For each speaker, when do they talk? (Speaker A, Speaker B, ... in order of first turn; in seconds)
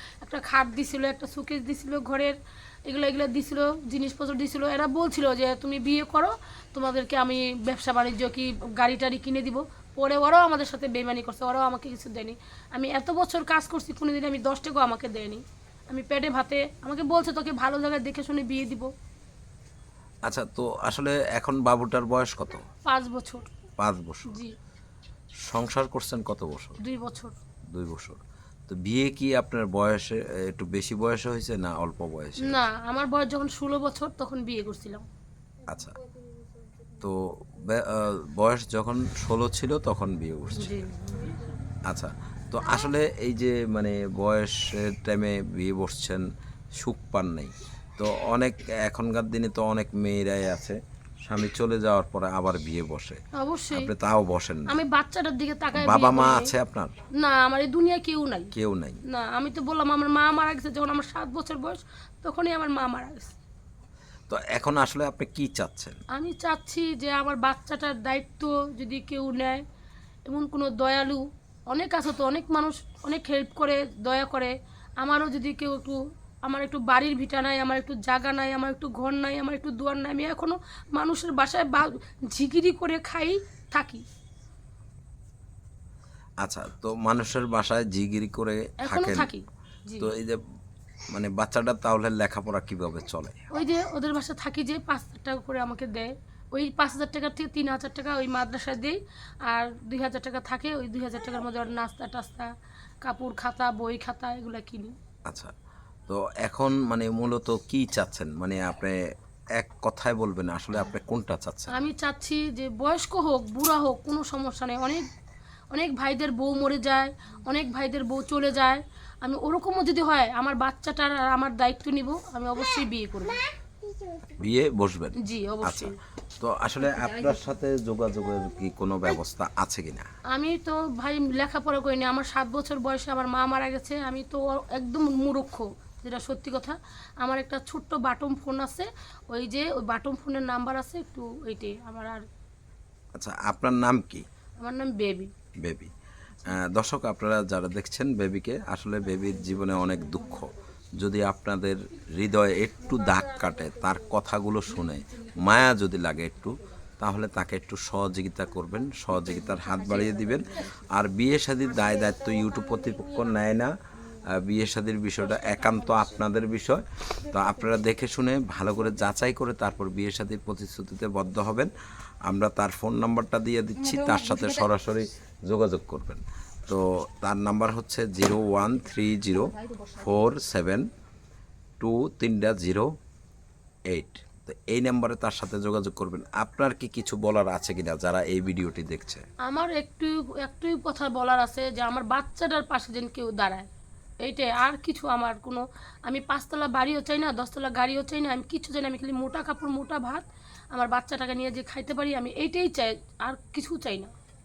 Speaker A: 0.2-18.9, 22.9-23.5, 26.8-27.4, 32.4-35.0, 40.5-41.4, 53.4-53.9, 54.7-56.5, 57.2-58.5, 59.1-63.4, 66.1-69.6, 70.3-84.0, 88.8-90.1, 93.5-102.5, 103.0-104.9, 111.7-115.1, 115.7-123.4, 125.2-125.9, 130.3-142.2, 144.6-145.3, 189.4-193.7, 194.2-204.1
Speaker B: 20.2-22.7, 23.8-24.4, 25.5-26.8, 27.7-32.6, 35.7-36.0, 37.0-40.8, 41.9-46.2, 46.8-53.2, 53.7-54.8, 55.7-56.9, 58.5-59.0, 64.3-66.0, 86.4-89.3, 90.0-90.4, 91.1-93.5, 105.3-105.5, 106.1-109.0, 109.6-111.8, 124.4-130.1, 143.2-144.2, 145.6-145.9, 146.4-171.7, 172.2-180.9, 181.8-182.9, 183.9-189.2